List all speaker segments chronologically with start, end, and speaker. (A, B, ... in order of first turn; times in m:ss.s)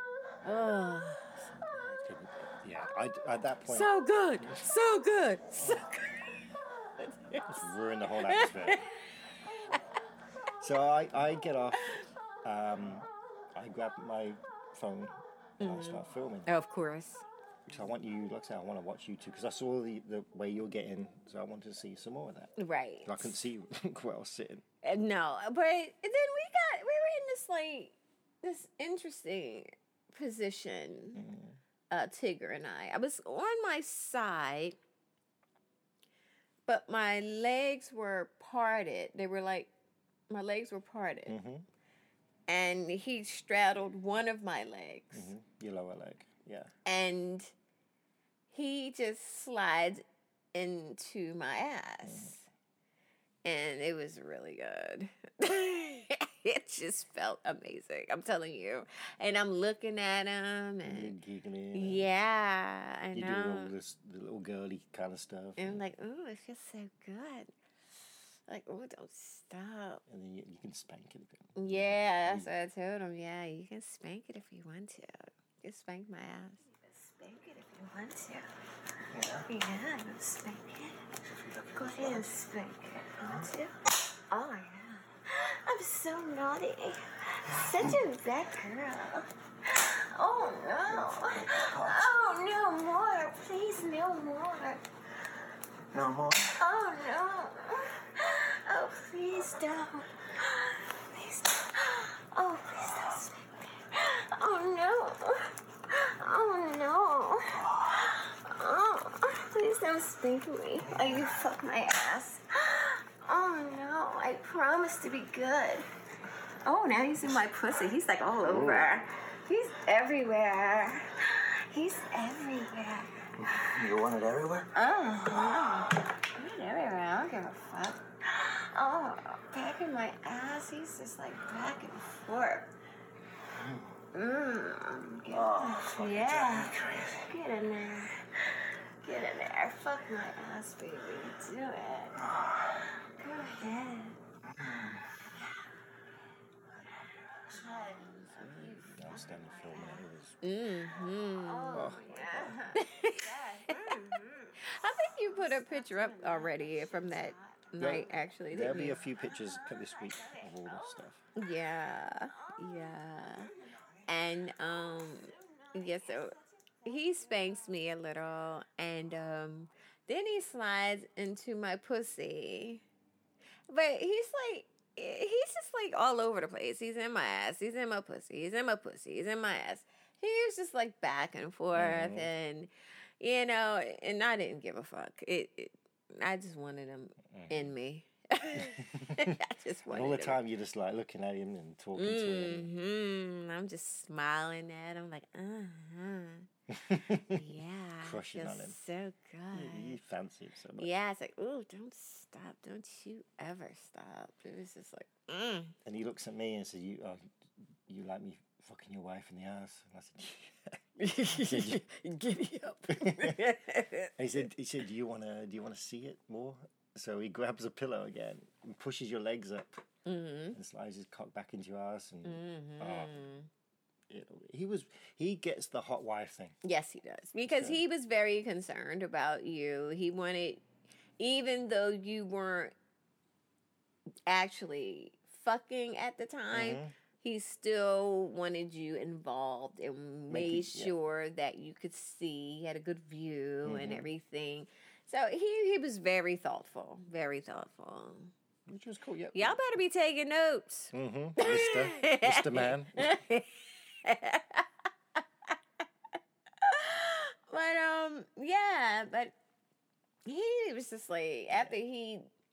0:00.4-0:02.0 A
0:02.0-0:03.9 B
0:03.7-0:06.3 A
0:07.0-0:07.6 A
0:07.4-0:08.8 B
0:08.3-0:08.8 A
0:10.6-0:16.5 B
0:15.6-0:17.2 A
0:17.7-0:22.5 B
0:22.6-0:23.4 A
0:23.0-0:24.6 B
0:24.8-0:31.2 A
0:31.2-0:31.6 B
0:31.9-0:34.8 A
0:36.7-0:39.7 A
0:40.3-0:41.4 A
0:41.3-0:41.7 B
0:42.5-0:45.3 A
0:45.1-0:46.7 B
0:46.8-0:47.5 A
0:48.5-0:52.5 A
0:52.0-0:52.4 B
0:53.4-1:01.1 A
1:00.8-1:02.1 B
1:01.7-1:03.7 A
1:03.1-1:05.8 B
1:05.6-1:07.5 A
1:08.5-1:10.0 A
1:10.1-1:12.5 B
1:11.6-1:16.7 A
1:16.9-1:18.4 C
1:19.1-1:19.5 D
1:19.5-1:21.0 C
1:21.2-1:22.4 D
1:21.8-1:23.6 C
1:23.2-1:23.7 A
1:23.2-1:23.5 D
1:24.3-1:34.8 C
1:27.5-1:28.0 D
1:30.8-1:32.1 D
1:35.9-1:36.6 D
1:36.6-1:55.9 C
1:50.9-1:51.2 A
1:56.6-1:57.2 C
1:57.0-1:59.4 A
1:58.5-1:59.0 B
1:59.5-2:01.1 C
2:00.0-2:01.0 A
2:01.7-2:03.1 C
2:03.4-2:04.7 D
2:04.8-2:12.7 C
2:05.0-2:06.0 A
2:14.1-2:16.7 C
2:15.3-2:17.3 D
2:16.0-2:16.7 A
2:17.2-2:18.2 C
2:19.0-2:22.2 C
2:23.2-2:24.1 C
2:23.4-2:23.8 A
2:24.5-2:25.0 D
2:27.5-2:30.0 C
2:28.0-2:29.1 A
2:28.6-2:30.4 B
2:30.4-2:34.0 A
2:31.4-2:38.0 C
2:31.7-2:32.5 B
2:34.6-2:39.0 A
2:37.8-2:41.2 B
2:39.8-2:40.5 C
2:41.4-2:43.5 A
2:44.1-2:52.8 A
2:45.4-2:46.2 C
2:53.7-3:10.4 A
3:01.7-3:02.3 B
3:07.3-3:07.7 B
3:08.6-3:09.4 B
3:09.9-3:12.7 B
3:12.0-3:16.5 A
3:16.7-3:17.5 B
3:17.1-3:20.0 A
3:18.0-3:18.8 B
3:19.5-3:20.9 B
3:20.8-3:25.8 A
3:25.8-3:27.3 B
3:27.9-3:31.8 B
3:31.0-3:34.1 A
3:32.9-3:33.4 B
3:34.2-3:39.8 B
3:40.1-3:40.6 A
3:40.5-3:43.3 B
3:42.2-3:43.5 A
3:44.1-3:46.6 B
3:46.6-3:50.6 A
3:47.5-3:47.8 B
3:51.2-3:52.7 A
3:54.3-4:08.3 A
3:56.5-3:56.9 B
4:00.3-4:00.9 B
4:03.6-4:04.1 B
4:08.7-4:09.6 B
4:09.3-4:15.5 A
4:10.9-4:13.2 B
4:16.6-4:19.4 A
4:20.3-4:22.3 A